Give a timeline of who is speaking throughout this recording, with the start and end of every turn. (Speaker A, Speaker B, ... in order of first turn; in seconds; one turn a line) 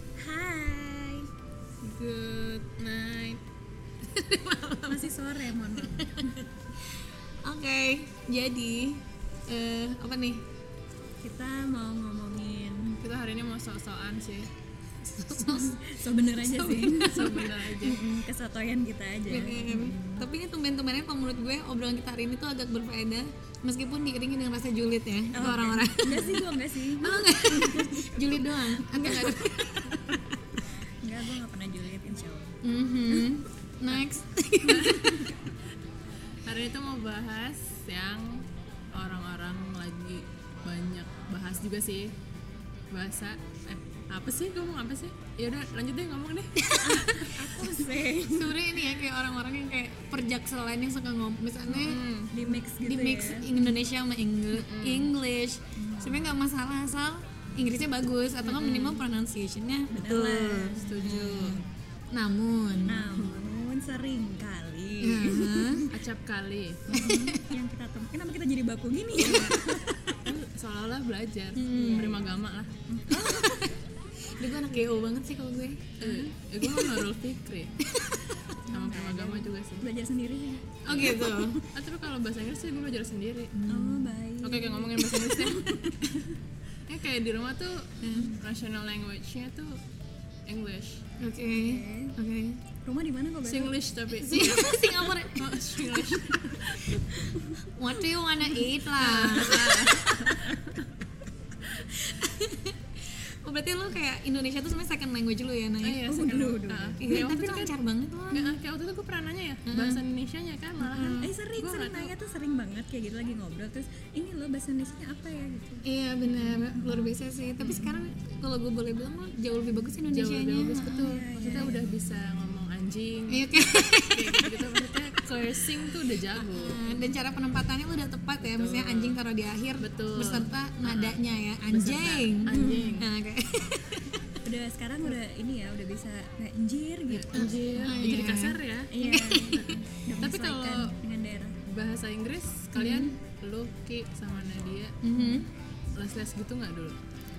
Speaker A: 0.2-1.3
Speaker B: 1.8-3.4
Speaker C: 4.1-5.1
Speaker A: 4.9-6.3
Speaker C: 5.9-6.4
Speaker C: 7.4-10.4
Speaker A: 11.2-13.0
Speaker B: 13.0-14.5
Speaker C: 15.0-16.9
Speaker A: 15.4-20.3
Speaker B: 17.0-18.0
Speaker C: 19.3-26.4
Speaker A: 25.3-28.4
Speaker C: 27.0-30.0
Speaker A: 28.9-29.4
Speaker A: 31.0-32.5
Speaker C: 32.6-35.3
Speaker B: 34.6-35.2
Speaker B: 36.4-42.1
Speaker B: 42.9-46.5
Speaker C: 46.6-47.3
Speaker A: 46.8-48.6
Speaker C: 48.3-52.0
Speaker B: 51.7-52.3
Speaker A: 52.3-53.5
Speaker C: 52.8-61.6
Speaker B: 54.5-55.1
Speaker A: 55.8-56.3
Speaker B: 58.4-59.0
Speaker A: 59.9-60.9
Speaker B: 60.8-61.6
Speaker C: 62.1-63.2
Speaker A: 62.9-65.9
Speaker B: 63.2-63.5
Speaker C: 65.0-65.9
Speaker B: 65.9-66.8
Speaker A: 66.9-70.1
Speaker C: 66.9-67.5
Speaker B: 69.2-72.7
Speaker C: 71.5-72.1
Speaker A: 71.8-72.2
Speaker A: 72.9-73.6
Speaker C: 73.1-76.9
Speaker B: 76.0-77.7
Speaker A: 76.0-76.3
Speaker C: 77.8-78.4
Speaker A: 78.7-81.6
Speaker B: 78.7-79.9
Speaker C: 80.8-81.6
Speaker B: 80.9-81.2
Speaker B: 81.7-83.5
Speaker C: 83.5-84.1
Speaker A: 83.7-86.0
Speaker B: 84.4-86.3
Speaker B: 86.9-89.8
Speaker C: 88.0-88.3
Speaker B: 90.5-91.0
Speaker C: 91.2-92.6
Speaker A: 91.5-92.1
Speaker A: 92.8-93.7
Speaker B: 93.4-97.0
Speaker C: 94.2-96.0
Speaker C: 97.7-100.3
Speaker B: 99.0-100.5
Speaker C: 101.6-108.6
Speaker B: 105.8-107.7
Speaker A: 106.1-107.0
Speaker B: 108.3-112.1
Speaker C: 109.7-110.0
Speaker C: 110.8-111.3
Speaker A: 111.0-115.8
Speaker C: 115.8-121.7
Speaker A: 116.4-117.1
Speaker B: 120.1-126.9
Speaker A: 121.0-121.8
Speaker C: 123.3-124.8
Speaker C: 126.4-134.1
Speaker B: 128.4-129.2
Speaker B: 129.8-131.2
Speaker B: 131.7-133.1
Speaker A: 132.5-133.0
Speaker A: 134.4-138.0
Speaker B: 137.1-138.9
Speaker C: 137.3-139.8
Speaker A: 138.9-141.6
Speaker B: 140.2-140.9
Speaker B: 141.7-145.0
Speaker C: 142.8-143.2
Speaker C: 145.0-145.5
Speaker B: 145.9-146.9